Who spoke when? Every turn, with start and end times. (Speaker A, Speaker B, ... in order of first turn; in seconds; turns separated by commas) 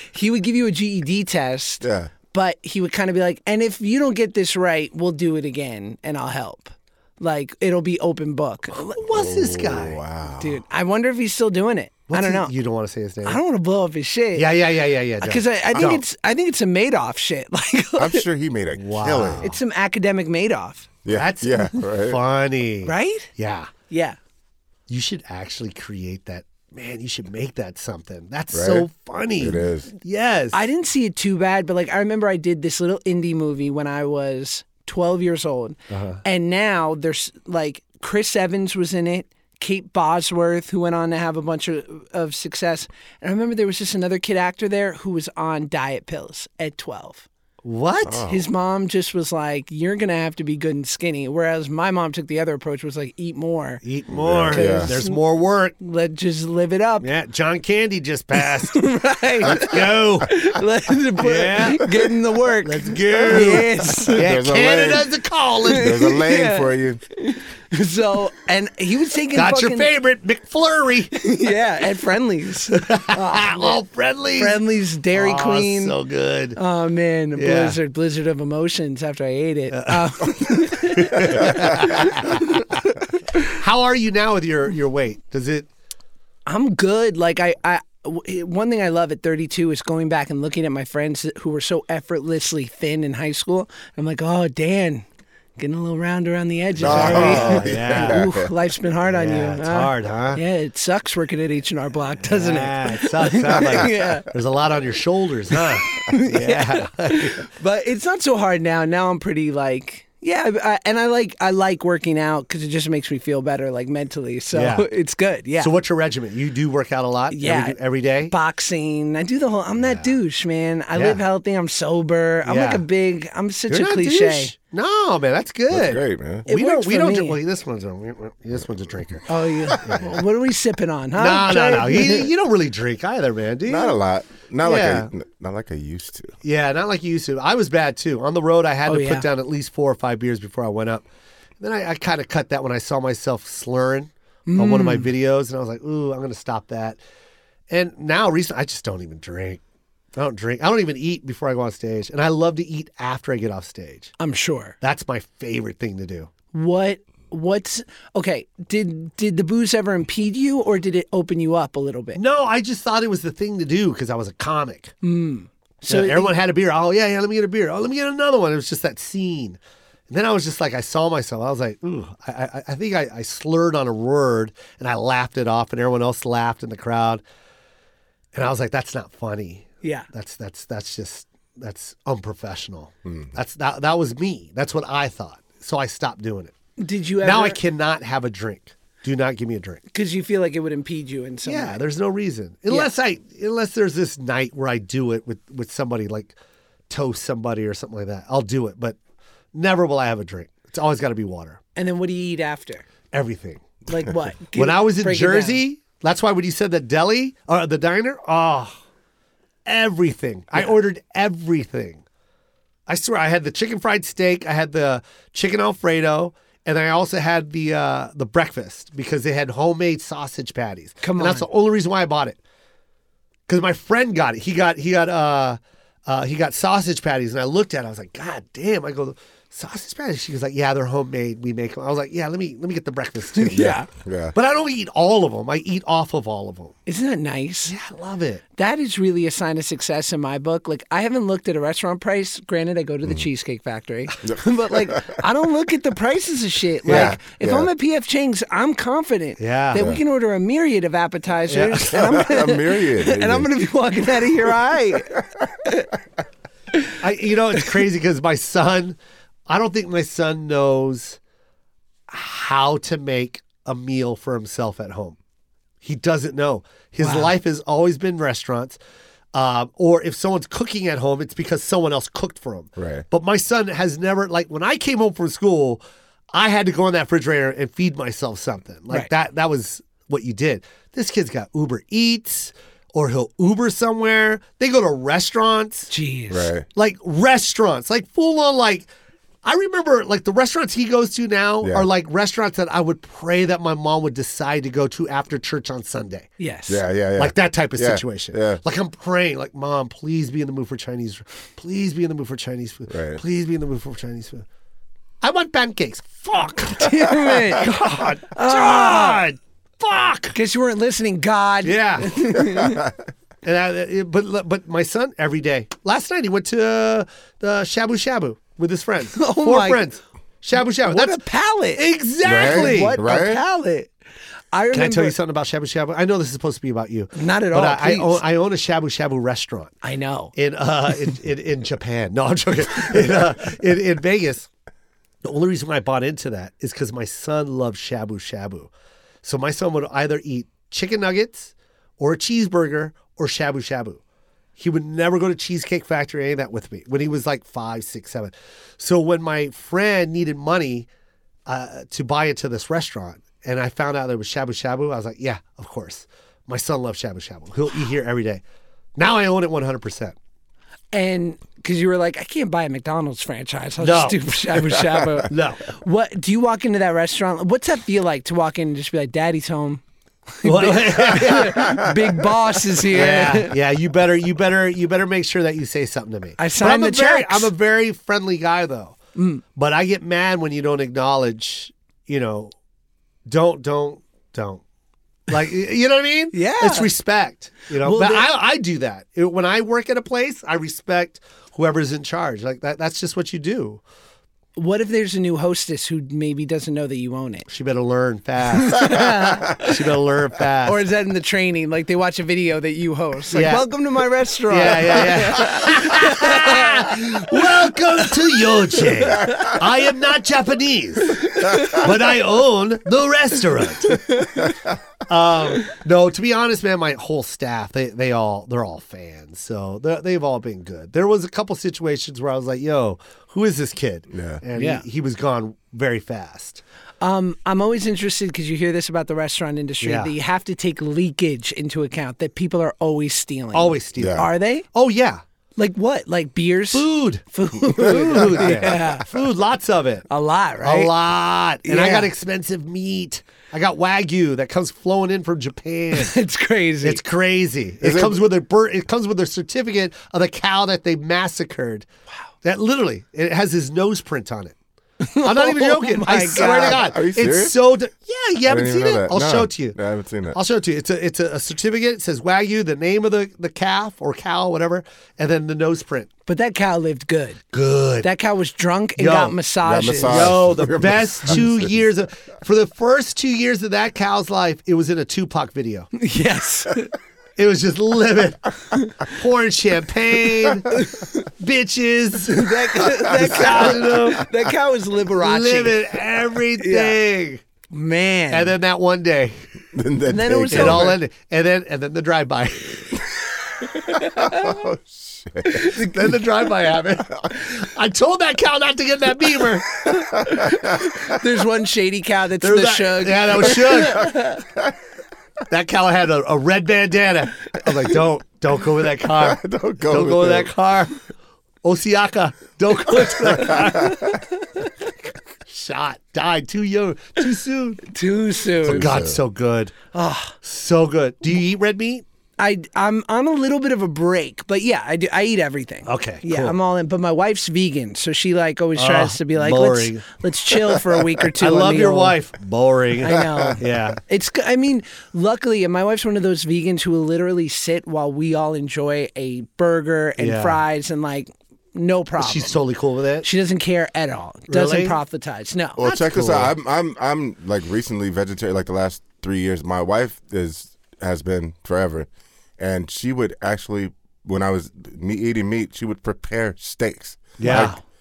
Speaker A: 0.1-9.0, Speaker B: 1.8-2.1, Speaker C: 8.7-10.0, Speaker B: 9.1-10.6, Speaker A: 10.4-12.5, Speaker C: 12.1-13.4, Speaker A: 13.2-14.7, Speaker C: 14.3-16.0, Speaker A: 15.2-18.2, Speaker B: 18.0-19.5, Speaker C: 18.8-19.5, Speaker A: 19.4-20.9, Speaker B: 21.1-22.2, Speaker C: 21.1-23.7, Speaker A: 22.8-23.3, Speaker A: 23.9-24.2, Speaker C: 24.9-30.6, Speaker B: 28.5-28.9, Speaker B: 29.4-29.9, Speaker A: 30.5-47.3, Speaker C: 35.9-36.2, Speaker C: 47.6-48.2, Speaker B: 48.0-48.4, Speaker A: 48.3-53.8, Speaker C: 53.8-55.7, Speaker B: 54.1-54.9, Speaker A: 54.5-55.2, Speaker A: 55.8-57.1, Speaker C: 57.0-58.8, Speaker A: 58.4-64.2, Speaker C: 59.4-60.3, Speaker C: 61.2-61.9, Speaker C: 62.6-65.9, Speaker B: 64.1-65.1, Speaker A: 65.7-69.9, Speaker B: 65.7-67.0, Speaker C: 69.3-71.2, Speaker A: 71.1-73.8, Speaker C: 72.7-74.6, Speaker A: 74.4-76.0, Speaker C: 75.1-76.6, Speaker A: 76.6-82.6, Speaker C: 77.4-77.8, Speaker C: 79.7-82.8, Speaker C: 83.4-85.7, Speaker A: 86.5-95.1, Speaker A: 95.6-104.3, Speaker B: 96.8-98.5, Speaker C: 96.8-98.2, Speaker C: 99.0-100.4, Speaker C: 102.3-107.4, Speaker A: 105.9-115.7, Speaker C: 114.5-114.9, Speaker C: 115.6-118.3, Speaker A: 117.3-117.8, Speaker A: 118.3-124.5, Speaker C: 119.8-120.2, Speaker C: 120.9-121.2, Speaker C: 122.5-122.8, Speaker C: 123.7-129.3, Speaker B: 125.7-126.5, Speaker A: 126.5-127.4, Speaker A: 129.3-132.3, Speaker C: 129.8-130.2, Speaker C: 131.2-134.0, Speaker B: 133.7-136.3, Speaker C: 134.6-135.1, Speaker C: 136.4-141.1, Speaker A: 138.9-139.3, Speaker C: 141.6-147.0, Speaker A: 144.5-145.1, Speaker C: 147.7-149.6, Speaker C: 150.2-154.1, Speaker A: 154.2-154.8, Speaker C: 154.8-156.3, Speaker A: 156.5-162.2, Speaker C: 162.1-164.9, Speaker A: 165.0-166.3, Speaker C: 165.8-177.2, Speaker C: 178.3-186.6, Speaker A: 186.8-187.6, Speaker C: 187.2-189.8, Speaker A: 189.9-191.8, Speaker C: 191.4-196.3, Speaker C: 196.9-199.0, Speaker C: 199.5-201.6, Speaker A: 201.8-202.9, Speaker C: 203.1-203.7, Speaker A: 203.9-205.6, Speaker C: 204.6-208.8, Speaker C: 209.7-212.0, Speaker C: 212.9-222.4, Speaker A: 221.0-221.5, Speaker C: 223.5-233.8, Speaker A: 233.4-233.9, Speaker B: 233.6-234.3, Speaker C: 234.3-236.8, Speaker A: 236.9-237.7, Speaker C: 237.7-238.4, Speaker A: 238.6-255.9, Speaker B: 244.2-245.2, Speaker C: 246.9-247.2, Speaker B: 246.9-247.7, Speaker C: 249.4-249.9, Speaker B: 249.8-250.0, Speaker C: 251.5-252.0, Speaker B: 251.9-253.5, Speaker B: 255.2-255.5, Speaker C: 257.0-259.0, Speaker C: 259.5-261.2, Speaker C: 262.1-265.2, Speaker C: 265.8-268.8, Speaker A: 267.0-267.3, Speaker C: 269.3-275.8, Speaker B: 272.8-273.1, Speaker C: 276.3-285.9, Speaker A: 285.9-286.5, Speaker B: 286.3-286.7, Speaker C: 286.7-288.9, Speaker C: 289.4-296.3, Speaker B: 291.6-291.9, Speaker A: 296.4-296.8, Speaker B: 296.7-298.6, Speaker C: 297.2-304.4, Speaker B: 302.9-303.2, Speaker C: 305.2-310.4, Speaker A: 306.8-309.2, Speaker A: 310.4-312.8, Speaker C: 311.6-312.4, Speaker B: 312.4-312.9, Speaker C: 313.4-321.2, Speaker A: 319.1-319.9, Speaker A: 320.8-323.9, Speaker C: 321.8-322.9, Speaker B: 322.2-323.4, Speaker A: 324.5-325.1, Speaker C: 324.7-329.7, Speaker A: 327.1-328.2, Speaker A: 329.8-330.3, Speaker C: 330.4-334.5, Speaker C: 335.2-338.7, Speaker C: 339.2-344.0, Speaker C: 344.6-350.9, Speaker C: 351.5-358.4, Speaker C: 359.0-360.2, Speaker A: 360.9-369.8, Speaker C: 363.8-364.2, Speaker C: 365.3-365.6, Speaker A: 370.4-373.6, Speaker C: 370.4-371.9, Speaker C: 372.9-379.0, Speaker A: 376.4-377.5, Speaker A: 379.2-379.4, Speaker C: 379.6-382.5, Speaker C: 383.3-384.6, Speaker C: 385.3-393.8, Speaker A: 386.3-386.9, Speaker A: 387.8-388.3, Speaker A: 394.6-397.5, Speaker C: 397.5-399.0, Speaker A: 398.6-399.9, Speaker C: 399.6-400.8, Speaker A: 400.6-409.7, Speaker C: 403.3-403.6, Speaker C: 404.5-414.0, Speaker A: 411.1-412.0, Speaker A: 413.8-414.4, Speaker C: 415.1-426.6, Speaker B: 424.1-424.4, Speaker A: 424.6-424.8, Speaker A: 427.0-434.7, Speaker C: 429.8-430.1, Speaker C: 433.5-435.2, Speaker B: 434.0-434.3, Speaker A: 435.6-439.2, Speaker C: 436.7-437.2, Speaker B: 437.8-438.9, Speaker C: 437.9-440.1, Speaker A: 440.1-440.9, Speaker C: 440.6-446.1, Speaker A: 441.6-442.1, Speaker A: 445.9-447.0, Speaker C: 446.8-451.9, Speaker B: 447.8-448.2, Speaker C: 452.4-454.6, Speaker A: 455.0-456.9, Speaker C: 455.1-459.8, Speaker B: 456.4-457.6, Speaker B: 458.4-460.4, Speaker C: 460.3-466.1, Speaker A: 466.3-467.4, Speaker C: 467.5-468.1, Speaker A: 468.0-470.4, Speaker C: 469.0-469.4, Speaker B: 469.6-471.7, Speaker C: 470.0-475.9, Speaker A: 475.9-476.9, Speaker C: 477.4-480.8, Speaker A: 480.7-481.3, Speaker C: 481.4-484.2, Speaker A: 482.3-485.8, Speaker C: 485.2-487.4, Speaker A: 486.6-487.0, Speaker A: 487.7-488.6, Speaker C: 488.3-489.4, Speaker B: 489.7-491.0, Speaker A: 490.1-491.0, Speaker C: 490.5-493.0, Speaker B: 492.9-493.2, Speaker A: 493.9-494.5, Speaker B: 493.9-495.8, Speaker A: 495.5-496.1, Speaker C: 495.6-499.9, Speaker A: 499.9-504.4, Speaker B: 500.2-501.0, Speaker C: 502.4-504.1, Speaker B: 504.1-504.4, Speaker C: 505.5-511.0, Speaker B: 509.0-510.5, Speaker C: 511.6-514.2, Speaker B: 513.3-514.2, Speaker A: 513.6-514.2, Speaker C: 515.5-517.9, Speaker A: 517.9-519.0, Speaker B: 518.6-519.2, Speaker C: 518.6-519.8, Speaker A: 519.9-520.4, Speaker C: 520.4-522.0, Speaker A: 522.4-532.2, Speaker C: 525.9-526.6, Speaker C: 528.8-530.1, Speaker C: 531.4-534.0, Speaker A: 533.0-542.6, Speaker B: 533.1-533.6, Speaker C: 540.2-540.6, Speaker C: 542.2-543.3, Speaker A: 543.2-545.8, Speaker C: 544.5-545.0, Speaker B: 545.8-552.1, Speaker C: 545.8-546.5, Speaker B: 552.6-557.8, Speaker C: 557.4-557.8, Speaker A: 557.4-557.8